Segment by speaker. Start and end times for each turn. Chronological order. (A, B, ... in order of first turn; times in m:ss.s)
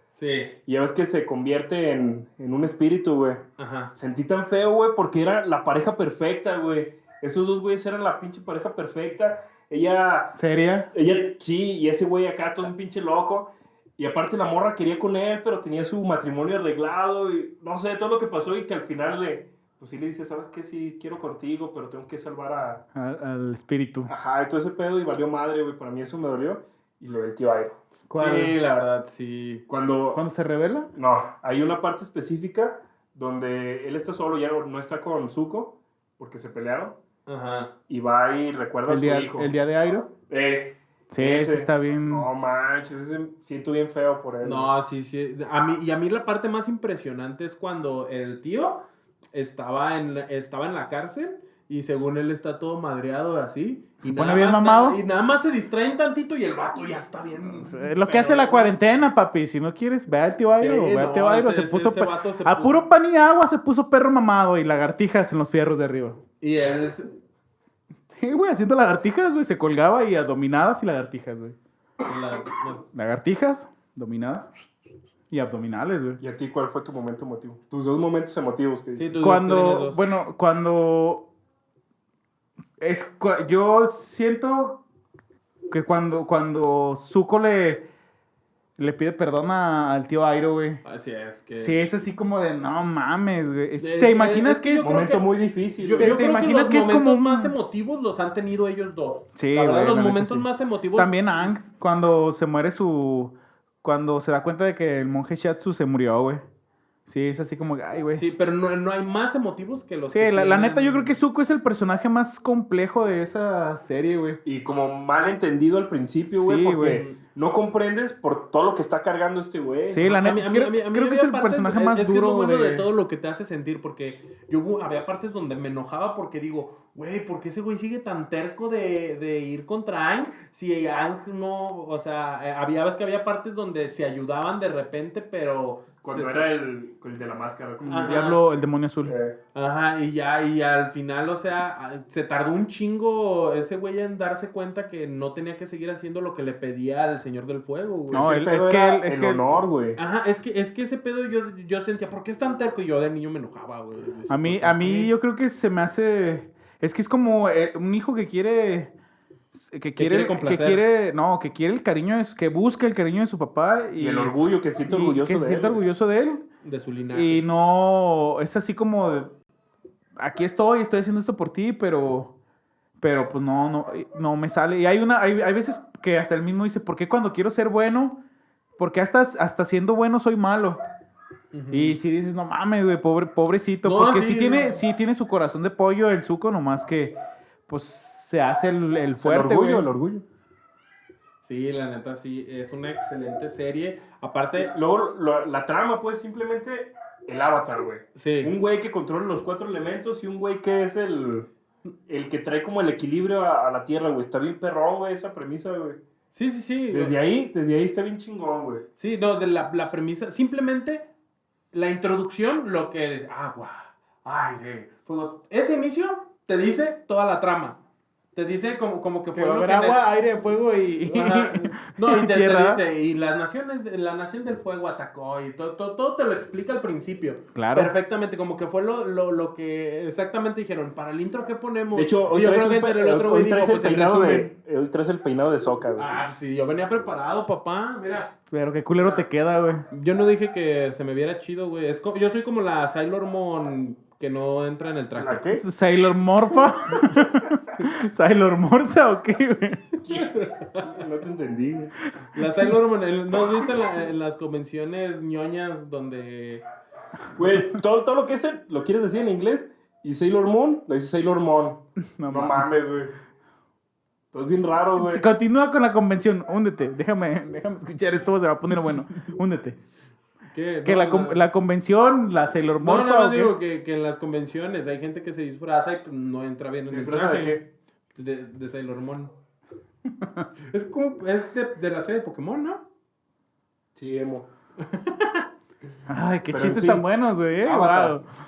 0:00.1-0:00.5 A
0:00.6-0:03.4 B
0:03.6-0:03.9 A
0:04.0-0:10.4 B
0:10.3-0:10.9 C
0:10.9-0:22.8 B
0:22.9-0:24.1 C
0:24.1-0:27.8 B
0:28.1-0:28.6 C
0:28.1-0:29.6 A
0:29.7-0:30.2 B
0:30.1-0:30.9 C
0:30.9-0:37.0 B
0:37.2-0:37.7 A
0:37.9-0:39.5 B
0:38.9-0:40.1 C
0:40.3-0:44.7 B
0:41.1-0:42.3 C
0:44.4-0:58.8 A
0:54.0-0:55.0 C
0:57.5-1:06.2 C
1:00.5-1:02.9 A
1:06.4-1:07.1 A
1:08.1-1:11.6 C
1:12.0-1:12.8 A
1:12.9-1:14.6 C
1:15.3-1:16.2 C
1:16.2-1:19.1 B
1:18.9-1:20.0 A
1:19.2-1:21.3 C
1:22.8-1:24.8 C
1:25.7-1:27.8 C
1:28.8-1:30.8 C
1:30.8-1:31.8 A
1:31.5-1:35.0 C
1:33.8-1:35.3 A
1:34.8-1:36.2 B
1:35.8-1:41.2 A
1:36.0-1:37.5 C
1:39.3-1:46.4 C
1:47.0-1:48.2 C
1:48.1-1:51.2 A
1:50.1-1:54.4 C
1:54.4-2:00.2 B
1:56.3-1:57.0 C
1:59.8-2:02.9 C
2:00.0-2:16.5 A
2:16.0-2:18.3 B
2:17.8-2:19.2 C
2:17.9-2:18.4 A
2:19.0-2:19.4 B
2:19.5-2:28.3 A
2:28.1-2:30.0 B
2:28.1-2:29.4 C
2:30.0-2:35.1 A
2:34.3-2:38.9 C
2:39.5-2:44.3 C
2:40.0-2:40.8 A
2:44.0-2:45.8 B
2:44.9-2:46.4 C
2:46.6-2:47.4 A
2:47.1-2:49.3 C
2:50.2-2:52.3 C
2:53.0-2:58.2 C
2:58.8-3:00.8 C
3:01.5-3:02.0 A
3:01.7-3:07.1 C
3:03.8-3:04.8 A
3:07.7-3:09.9 C
3:09.2-3:10.2 B
3:11.4-3:14.7 A
3:14.6-3:21.5 B
3:18.2-3:18.5 A
3:22.1-3:26.0 B
3:26.3-3:27.1 A
3:26.9-3:28.8 B
3:29.0-3:31.1 A
3:31.7-3:37.8 A
3:38.3-3:40.0 A
3:39.3-3:42.8 C
3:41.0-3:54.5 A
3:47.5-3:47.9 C
3:51.9-3:56.1 B
3:56.0-3:58.3 A
3:58.5-3:59.8 C
3:59.9-4:05.4 A
4:05.2-4:05.6 B
4:05.5-4:09.9 C
4:10.0-4:12.0 B
4:10.1-4:10.9 A
4:12.3-4:16.6 A
4:17.3-4:23.1 B
4:22.2-4:22.7 C
4:24.3-4:25.2 B
4:25.0-4:29.8 C
4:30.5-4:31.4 A
4:30.8-4:33.5 C
4:32.8-4:37.6 A
4:36.9-4:37.6 B
4:38.1-4:39.3 A
4:40.7-4:42.8 A
4:43.9-4:44.5 B
4:44.8-4:45.5 A
4:46.1-4:48.2 C
4:46.5-4:48.2 B